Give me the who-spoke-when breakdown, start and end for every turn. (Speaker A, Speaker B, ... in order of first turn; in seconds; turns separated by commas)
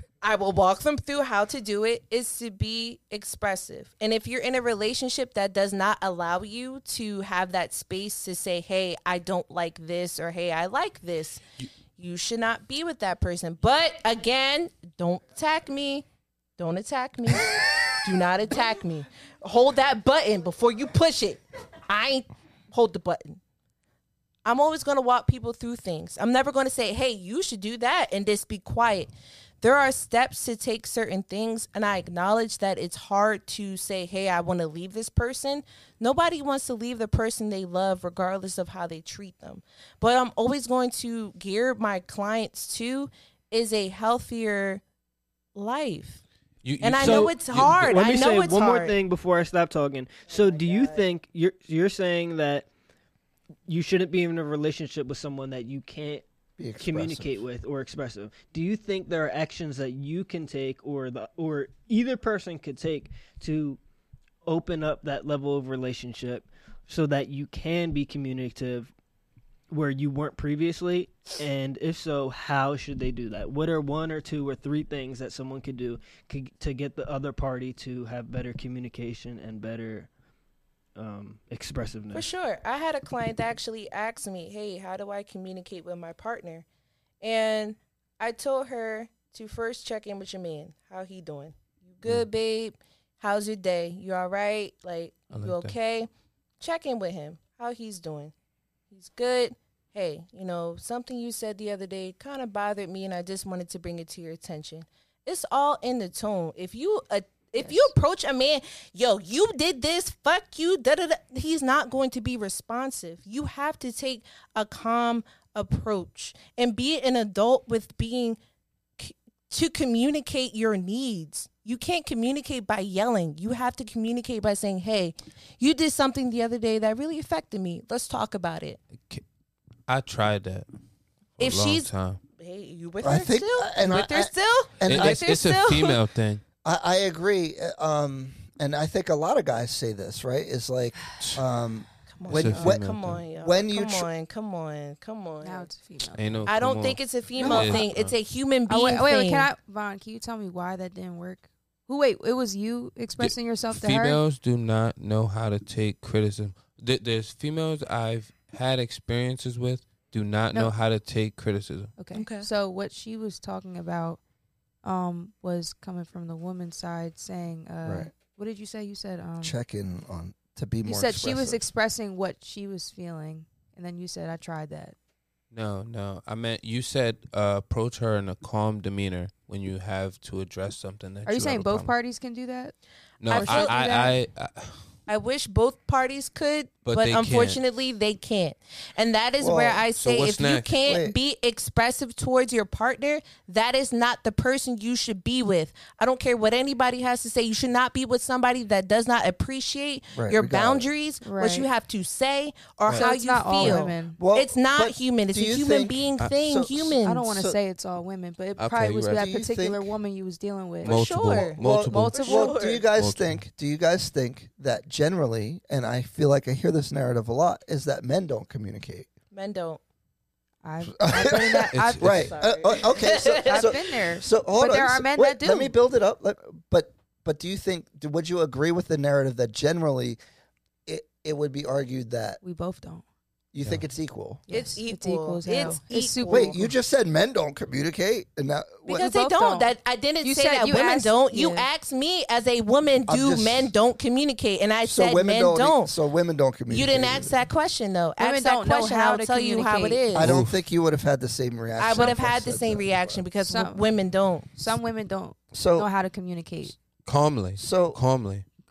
Speaker A: 0.2-11.4, Speaker A: 12.0-16.0, Speaker A: 16.6-23.4, Speaker A: 24.4-44.8, Speaker A: 45.5-46.2, Speaker B: 46.6-47.8, Speaker A: 46.8-49.0, Speaker C: 47.0-52.7, Speaker A: 50.3-51.0, Speaker C: 53.7-56.2, Speaker D: 56.6-57.4, Speaker C: 56.8-63.8, Speaker C: 64.4-68.9, Speaker C: 69.7-80.1, Speaker C: 81.0-82.3, Speaker A: 82.1-86.7, Speaker A: 87.2-96.1, Speaker B: 95.3-95.8, Speaker A: 96.6-98.3, Speaker A: 98.9-118.4, Speaker E: 107.6-107.9, Speaker A: 119.0-128.8, Speaker B: 129.9-130.7, Speaker B: 131.4-132.2, Speaker A: 131.4-136.0, Speaker D: 133.0-135.4, Speaker B: 134.9-136.4, Speaker D: 136.6-144.1, Speaker A: 142.1-145.7, Speaker B: 142.3-143.2, Speaker E: 145.4-146.5, Speaker B: 146.1-148.1, Speaker A: 146.5-149.5, Speaker E: 147.5-147.9, Speaker E: 148.7-154.2, Speaker B: 153.2-161.9, Speaker E: 162.0-164.2, Speaker A: 162.1-162.5, Speaker E: 164.8-169.6, Speaker D: 167.8-168.1, Speaker D: 169.4-171.6, Speaker E: 170.8-174.9, Speaker B: 175.5-181.9, Speaker E: 181.2-182.7, Speaker B: 183.2-184.8, Speaker E: 183.3-184.2, Speaker A: 183.3-183.8, Speaker A: 185.1-207.3, Speaker B: 186.8-187.6, Speaker D: 189.4-189.8, Speaker B: 189.9-190.8, Speaker D: 190.8-191.2, Speaker D: 200.1-200.9, Speaker E: 201.2-201.7, Speaker D: 202.9-207.6, Speaker E: 202.9-204.2, Speaker E: 207.0-211.0, Speaker B: 208.6-209.3, Speaker D: 209.1-209.9, Speaker A: 210.8-212.8, Speaker B: 210.8-212.2, Speaker D: 211.6-219.1, Speaker E: 211.8-212.6, Speaker B: 212.9-213.4, Speaker A: 219.3-219.8, Speaker E: 220.6-222.3, Speaker D: 220.9-230.2, Speaker B: 221.7-222.3, Speaker A: 222.2-223.9, Speaker E: 223.4-225.8, Speaker D: 230.8-232.4, Speaker E: 232.4-233.0, Speaker D: 233.5-234.4, Speaker E: 234.5-236.6, Speaker A: 234.5-236.6, Speaker D: 236.3-239.0, Speaker A: 238.9-245.9, Speaker E: 238.9-241.7, Speaker D: 243.1-243.7, Speaker D: 244.8-247.3, Speaker A: 246.7-250.3, Speaker E: 248.2-250.1, Speaker D: 250.1-253.2, Speaker B: 250.2-250.6, Speaker A: 251.8-254.7, Speaker E: 253.4-253.8, Speaker E: 254.6-256.8, Speaker D: 255.5-255.9, Speaker B: 257.0-258.4, Speaker D: 257.6-258.0